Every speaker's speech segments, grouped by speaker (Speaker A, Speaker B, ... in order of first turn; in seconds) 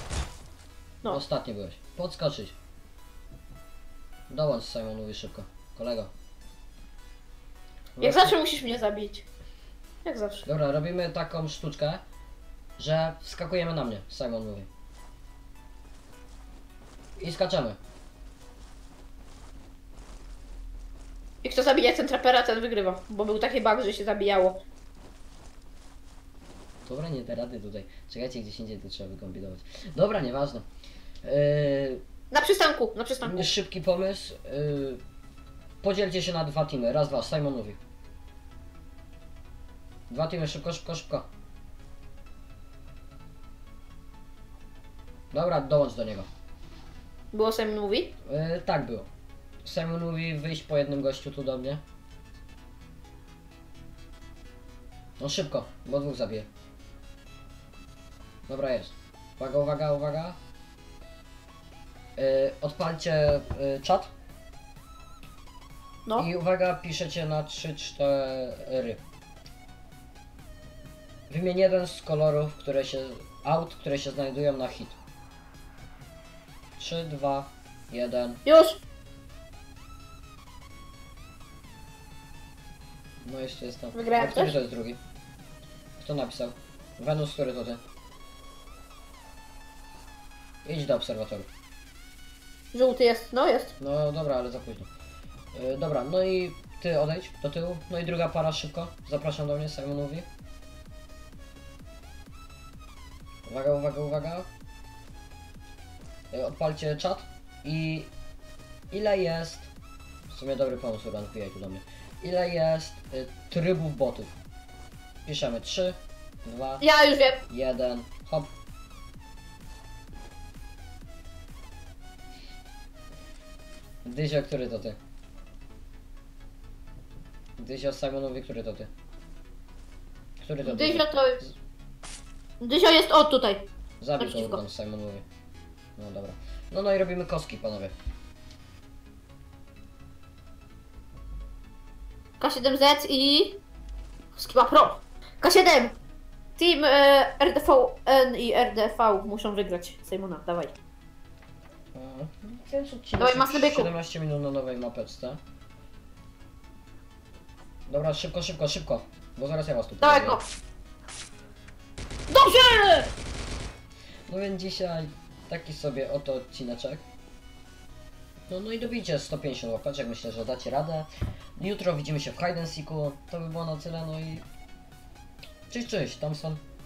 Speaker A: 1.0-2.5, 4.3-6.1, 8.0-8.4, 10.4-12.0, 12.8-14.7, 17.2-17.8, 26.9-30.6, 31.2-32.0, 33.2-35.0, 35.8-37.8, 40.1-41.2, 45.3-46.3, 48.2-49.1, 49.6-51.8, 55.2-56.5, 58.5-60.4, 62.1-64.1, 66.2-69.0, 71.3-75.0, 76.8-78.4, 83.2-85.0, 86.0-87.8, 90.6-91.5, 93.8-94.9, 95.5-100.2, 103.5-104.5, 106.3-108.1, 108.9-109.7, 110.3-114.3, 115.2-116.8, 117.5-118.5, 124.0-125.0, 127.6-128.9, 130.4-131.5, 134.0-135.2, 136.0-137.9, 151.9-155.4, 157.9-160.4, 164.3-167.0, 168.5-174.4, 175.7-176.6
Speaker B: 8.0-9.2, 10.1-10.4, 21.4-24.6, 32.3-33.5, 47.3-48.1, 78.5-78.8, 83.9-84.5, 92.7-93.7, 116.8-117.4, 130.7-131.4, 132.6-133.7, 134.2-134.6, 142.4-143.6, 144.3-145.9, 146.6-150.7, 153.2-153.9, 160.0-160.4, 162.3-163.1